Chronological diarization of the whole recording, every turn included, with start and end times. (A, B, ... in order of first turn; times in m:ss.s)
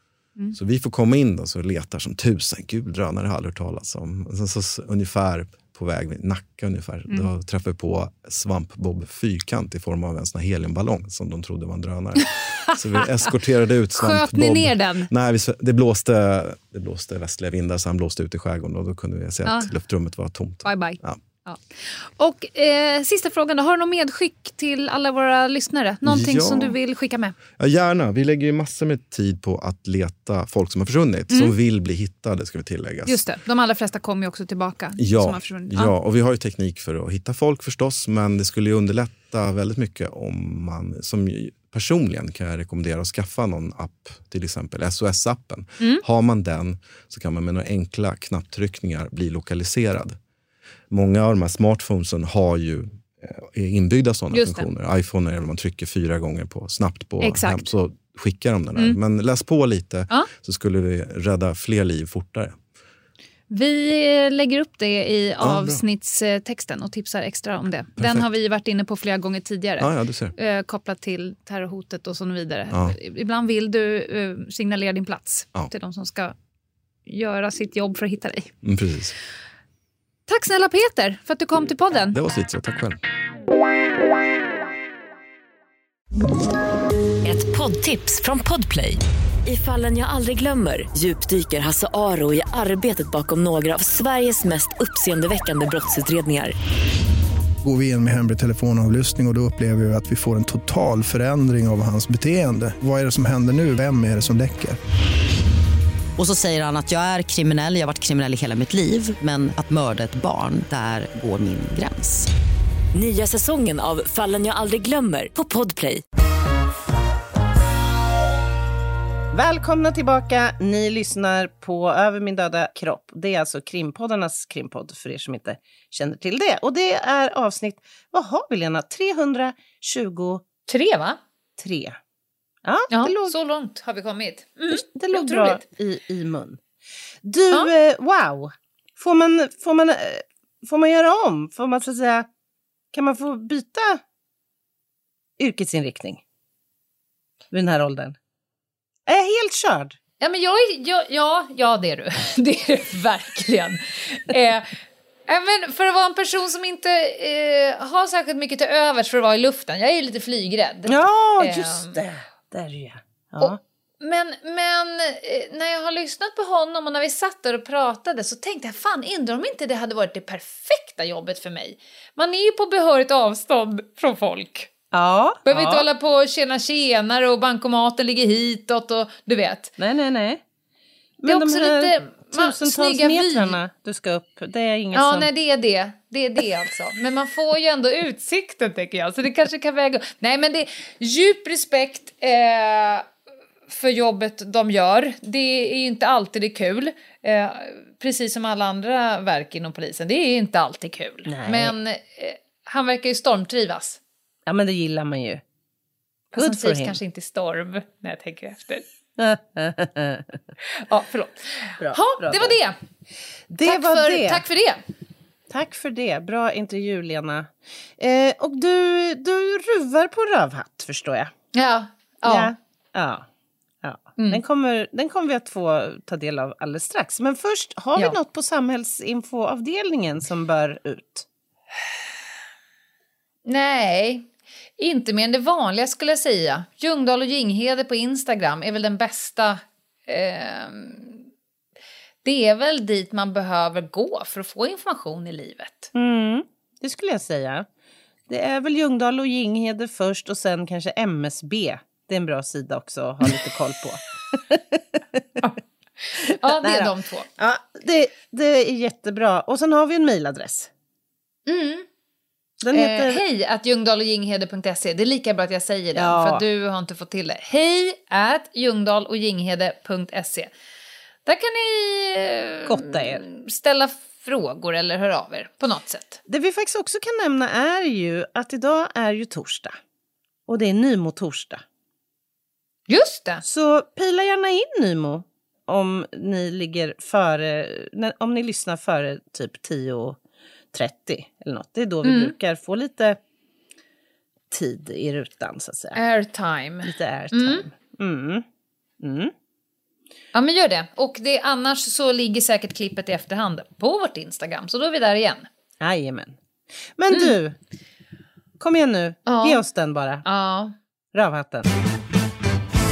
0:00.5-0:21.2 A
0:12.5-0:13.0 B
0:14.0-0:15.1 B
0:19.4-0:19.7 B
0:20.6-0:27.4 B
0:26.0-0:26.8 A
0:27.6-0:33.2 A
0:33.1-0:35.9 B
0:35.0-0:50.2 A
0:50.9-1:02.6 A
0:54.3-0:54.7 B
0:57.2-0:57.7 B
1:03.5-1:16.4 B
1:05.4-1:05.8 A
1:08.0-1:08.3 A
1:09.8-1:10.3 A
1:12.7-1:13.0 A
1:17.1-1:18.5 B
1:18.6-1:19.2 A
1:20.3-1:22.2 B
1:22.1-1:23.0 A
1:27.2-1:36.6 C
1:37.6-1:44.8 D
1:46.2-1:52.3 E
1:52.9-1:56.0 C
1:59.3-2:10.4 F
2:10.7-2:11.2 B
2:11.6-2:12.0 F
2:12.6-2:13.3 F
2:12.9-2:15.6 B
2:14.7-2:16.6 F
2:17.2-2:22.3 F
2:22.9-2:24.0 F
2:25.4-2:26.2 F
2:27.5-2:28.2 F
2:29.1-2:30.0 F
2:30.2-2:34.8 B
2:35.3-2:42.0 B
2:40.9-2:43.6 F
2:43.4-2:54.7 B
2:54.9-2:55.9 F
2:55.5-2:59.7 B
2:59.8-3:00.4 F
3:01.2-3:05.3 F
3:01.3-3:03.6 B
3:04.9-3:13.1 B
3:13.7-3:24.0 B
3:21.3-3:21.8 F
3:24.5-3:25.4 F
3:26.3-3:28.8 B
3:26.4-3:27.0 F
3:29.2-3:30.4 F
3:30.7-3:32.8 B
3:31.8-3:32.6 F
3:33.5-3:34.4 F
3:33.6-3:34.8 B
3:35.5-3:41.3 F
3:41.5-3:42.5 B
3:42.2-3:43.2 F
3:43.8-3:51.3 F
3:53.5-3:54.3 B
3:54.8-4:01.2 B
4:02.2-4:05.9 B
4:06.0-4:07.7 F
4:08.3-4:15.2 F
4:16.1-4:17.3 B
4:16.5-4:20.7 F
4:21.5-4:21.9 B
4:22.6-4:23.2 F
4:22.7-4:30.5 B
4:26.0-4:26.4 F
4:31.3-4:36.2 B
4:32.7-4:33.2 F
4:36.3-4:39.8 F
4:40.5-4:41.6 F
4:42.9-4:43.4 B
4:43.4-4:50.2 F
4:50.7-4:53.2 F
4:52.0-4:52.3 B
4:54.5-4:56.0 F
4:56.0-4:57.7 B
4:56.8-4:58.4 F
4:59.0-4:59.3 F
5:00.3-5:05.5 B
5:05.8-5:06.4 F
5:07.0-5:07.6 F
5:08.6-5:10.2 F
5:09.3-5:09.6 B
5:10.2-5:10.7 B
5:11.1-5:11.7 F